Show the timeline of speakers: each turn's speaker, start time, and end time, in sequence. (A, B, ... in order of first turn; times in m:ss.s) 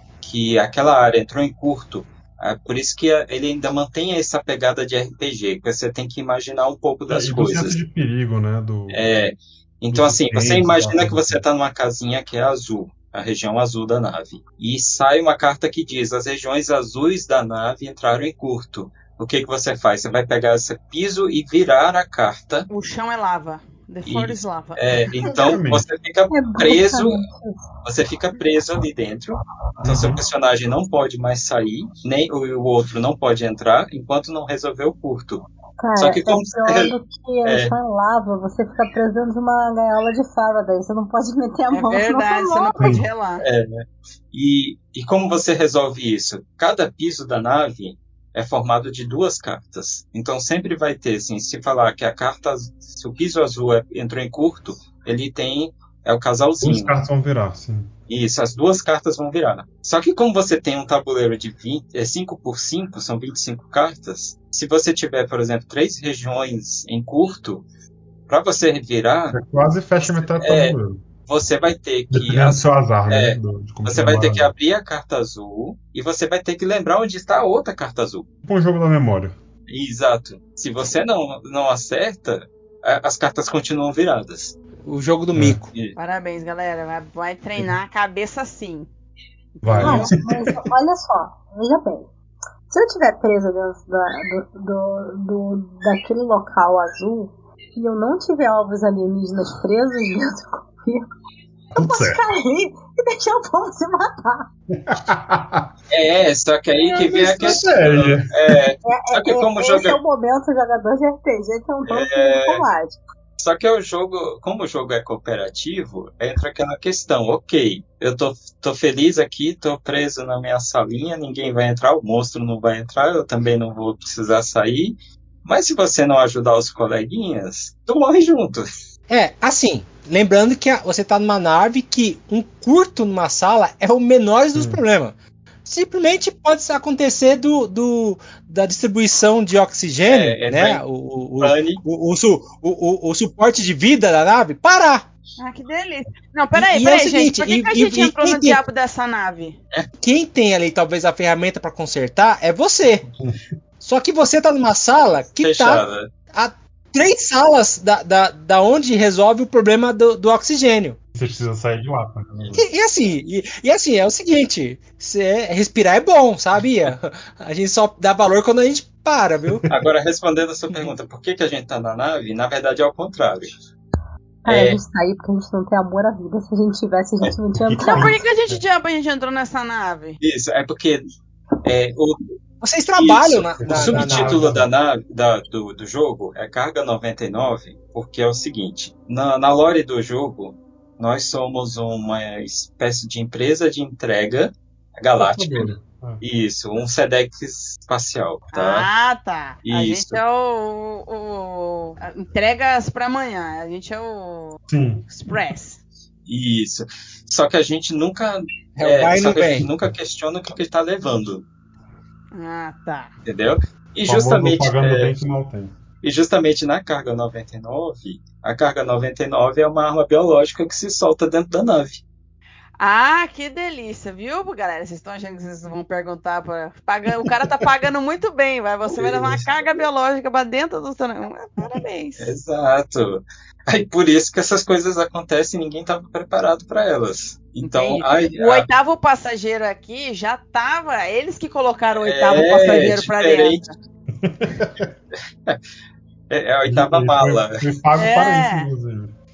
0:00.2-0:07.8 A
0:07.1-0:09.1 B
0:08.9-0:22.7 A
0:09.9-0:11.4 B
0:22.7-0:24.8 C
0:24.0-0:27.2 A
0:25.3-0:25.8 B
0:26.3-0:27.6 D
0:27.8-0:35.5 A
0:29.8-0:30.2 B
0:35.8-0:43.0 D
0:36.0-0:37.7 A
0:41.7-0:43.4 C
0:42.8-0:43.1 B
0:43.4-0:56.9 A
0:56.6-0:57.9 B
0:58.1-1:07.6 A
1:08.3-1:09.4 A
1:09.3-1:11.0 B
1:10.0-1:18.2 A
1:12.1-1:14.5 B
1:18.4-1:19.3 B
1:19.7-1:24.6 A
1:24.8-1:25.7 E
1:26.0-1:28.9 C
1:29.6-1:30.1 C
1:29.6-1:30.6 B
1:29.8-1:30.1 E
1:29.8-1:32.1 D
1:32.7-1:41.1 D
1:41.7-1:44.5 D
1:41.8-1:42.2 B
1:44.8-1:45.7 B
1:45.9-1:50.0 A
1:46.9-1:48.6 B
1:48.8-1:53.0 D
1:51.9-1:52.6 A
1:53.4-2:08.6 A
2:09.1-2:15.1 E
2:14.5-2:14.8 B
2:15.6-2:25.0 E
2:20.1-2:20.8 A
2:21.4-2:21.8 A
2:25.4-2:29.6 C
2:26.5-2:28.6 E
2:30.0-2:33.1 E
2:33.8-2:41.0 E
2:35.4-2:36.1 A
2:41.1-2:42.6 B
2:42.5-2:49.6 E
2:49.5-2:49.8 B
2:49.7-2:53.5 A
2:54.4-2:58.2 D
2:54.4-2:54.8 A
2:57.6-2:58.6 B
2:57.8-3:00.2 C
3:00.2-3:01.0 A
3:01.6-3:02.2 A
3:02.6-3:04.4 E
3:03.0-3:15.7 A
3:03.6-3:04.7 B
3:15.2-3:16.2 B
3:16.2-3:18.9 A
3:18.5-3:25.8 C
3:19.6-3:20.2 A
3:24.7-3:25.0 B
3:26.2-3:31.4 A
3:28.8-3:29.7 E
3:32.3-3:33.1 C
3:33.2-3:35.2 A
3:34.0-3:35.7 B
3:36.0-3:42.0 A
3:42.8-3:52.3 C
3:48.9-3:49.6 A
3:52.2-3:58.7 A
3:57.6-4:03.7 C
4:02.0-4:03.6 A
4:04.2-4:04.9 B
4:06.3-4:07.7 A
4:06.6-4:09.1 B
4:08.0-4:08.7 C